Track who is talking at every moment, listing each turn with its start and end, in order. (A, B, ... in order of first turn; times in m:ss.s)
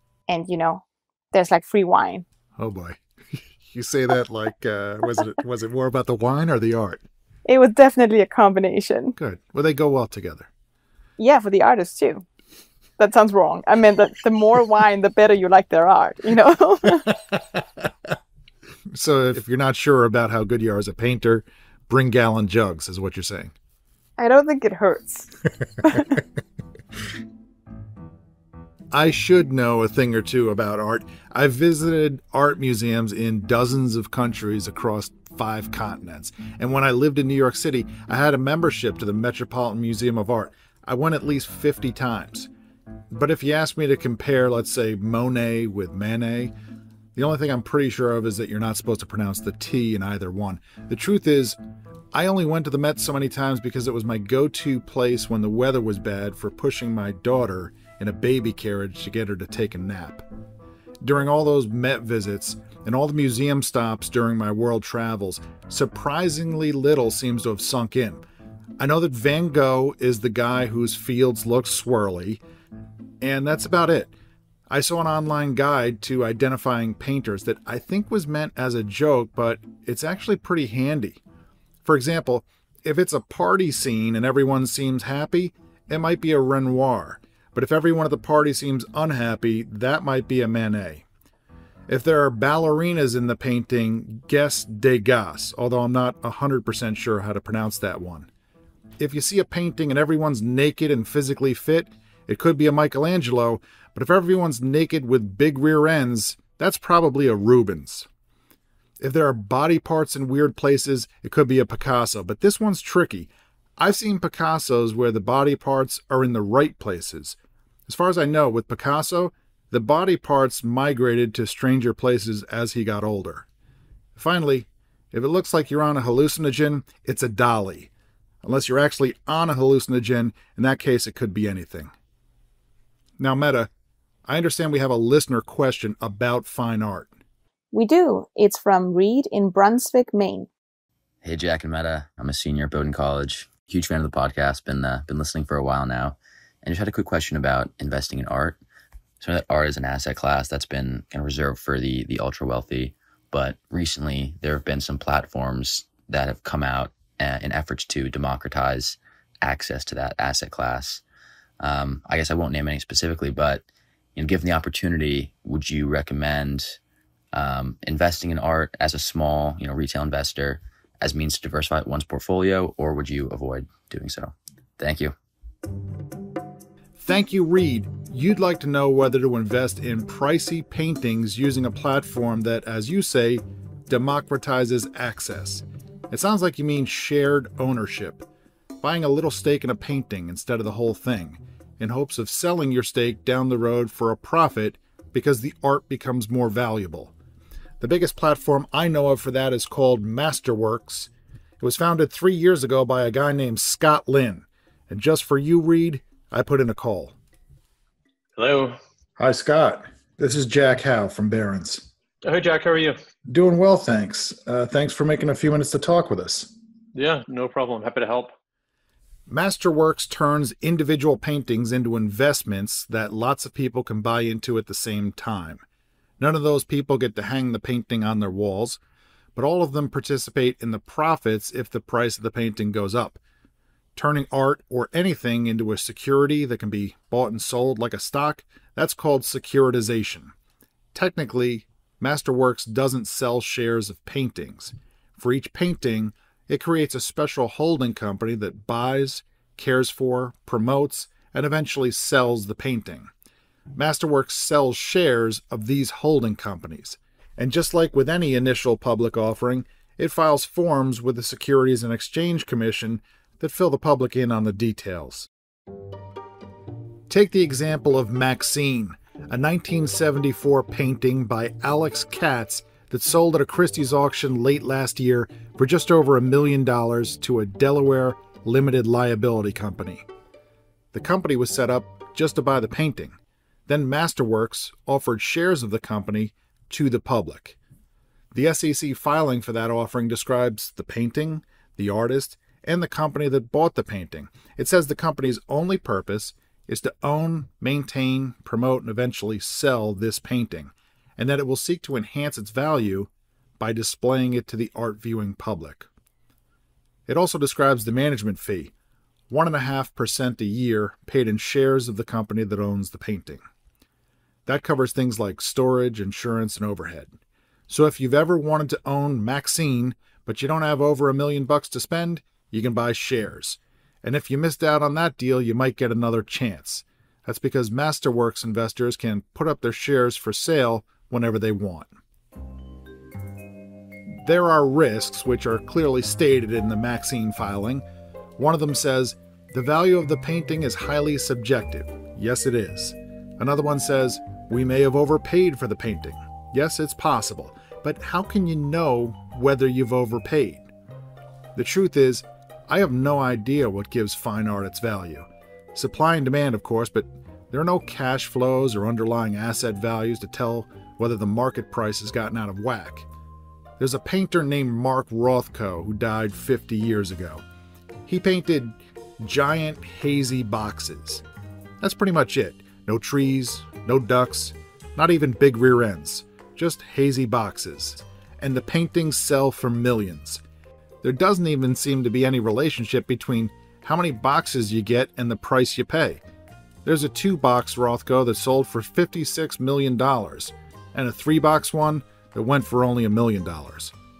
0:00.3-0:02.2 A
0:02.6-0:07.0 B
0:07.4-0:09.2 A
0:09.2-0:10.5 B
0:11.2-0:12.2 A
0:13.0-0:17.1 A
0:18.9-0:23.5 B
0:24.2-0:25.3 A
0:28.9-0:42.5 B
0:43.1-0:46.5 B
0:47.1-0:51.6 B
0:52.1-1:00.2 B
1:01.0-1:08.2 B
1:08.8-1:12.4 B
1:13.2-1:14.1 B
1:14.7-1:21.2 B
1:21.8-1:31.0 B
1:31.9-1:38.3 B
1:39.0-1:48.1 B
1:49.0-2:03.4 B
2:04.2-2:07.9 B
2:08.4-2:11.9 B
2:13.2-2:13.7 B
2:14.3-2:17.1 B
2:17.7-2:20.5 A
2:21.2-2:28.6 C
2:29.2-2:41.0 C
2:41.6-2:43.6 C
2:44.2-2:46.8 C
2:47.3-2:55.1 C
2:57.0-3:08.2 B
3:08.8-3:17.1 B
3:17.8-3:27.1 B
3:28.4-3:28.8 D
3:29.2-3:31.9 B
3:32.2-3:33.0 D
3:33.3-3:36.5 B
3:36.9-3:38.3 D
3:39.3-3:45.6 B
3:46.2-3:48.8 B
3:49.3-3:53.2 B
3:54.0-4:00.3 B
4:00.9-4:13.1 B
4:13.8-4:25.3 B
4:27.1-4:40.0 B
4:40.9-4:47.6 B
4:48.3-5:05.9 B
5:07.1-5:08.7 B
5:09.3-5:13.4 B
5:14.4-5:17.1 B
5:17.7-5:31.9 B
5:34.1-5:37.8 B
5:38.4-5:50.7 B
5:51.5-6:03.1 B
6:03.8-6:07.4 B
6:08.0-6:11.2 B
6:11.8-6:20.4 B
6:21.0-6:26.2 B
6:26.8-6:33.9 B